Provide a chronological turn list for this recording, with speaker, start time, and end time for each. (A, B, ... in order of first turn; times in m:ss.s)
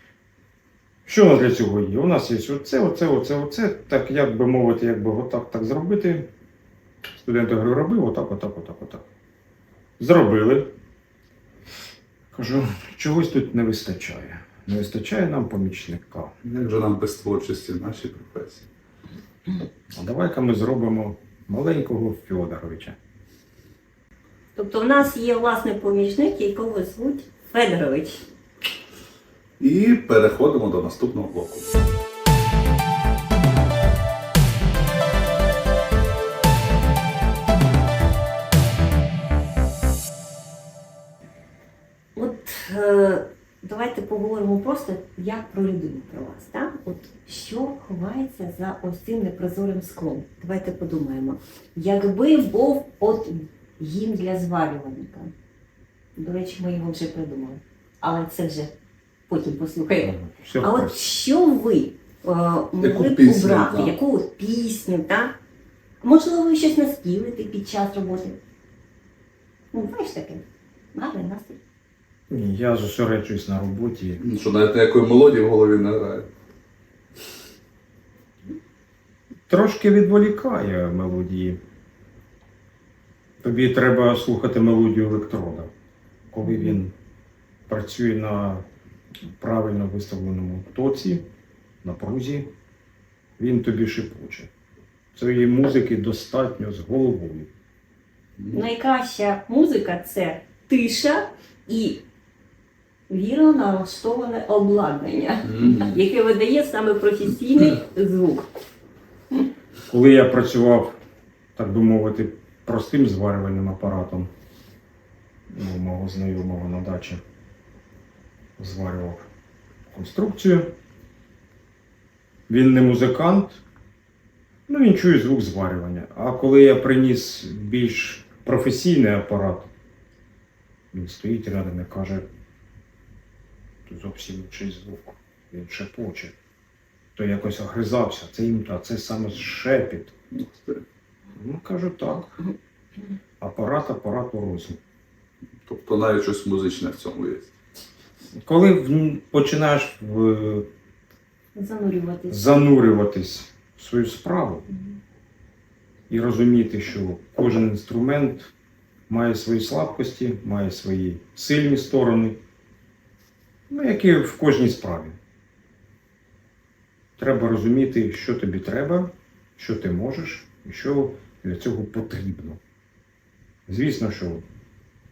0:01.1-0:06.3 A
0:07.2-0:09.0 A
0:10.0-0:10.7 A
0:12.3-0:16.3 A
0:16.4-0:18.7 B
0:19.9-0:23.0 A
0:24.6-0:28.2 C
0:29.6-0:31.7 B
0:42.2-0:55.3 C
0:56.2-0:58.7 C
0:59.3-1:05.4 C
1:00.0-1:01.0 A
1:02.8-1:04.0 B
1:06.0-1:08.4 C
1:09.7-1:10.4 C
1:10.9-1:11.6 C
1:12.3-1:14.2 A
1:14.2-1:16.3 B
1:19.5-1:21.6 A
1:23.4-1:25.7 A
1:26.3-1:26.9 A
1:26.5-1:26.8 C
1:27.7-1:28.6 A
1:29.3-1:31.2 A
1:31.8-1:32.5 A
1:33.4-1:34.5 A
1:35.2-1:37.5 A
1:38.5-1:42.0 C
1:43.1-1:48.5 C
1:45.4-1:46.0 B
1:49.9-1:51.0 A
1:51.6-1:54.3 A
1:55.5-1:57.2 A
1:58.6-1:59.2 A
1:59.9-2:00.7 A
2:02.5-2:03.6 A
2:04.7-2:09.7 A
2:10.9-2:12.3 A
2:13.9-2:16.4 A
2:17.2-2:20.1 A
2:20.3-2:20.8 B
2:21.4-2:22.4 A
2:23.4-2:24.8 A
2:25.7-2:27.5 B
2:28.4-2:30.7 A
2:31.6-2:32.6 C
2:32.3-2:34.7 A
2:34.7-2:35.0 C
2:36.1-2:38.5 A
2:39.1-2:42.4 A
2:43.7-2:45.2 A
2:47.2-2:52.6 A
2:53.7-2:54.4 A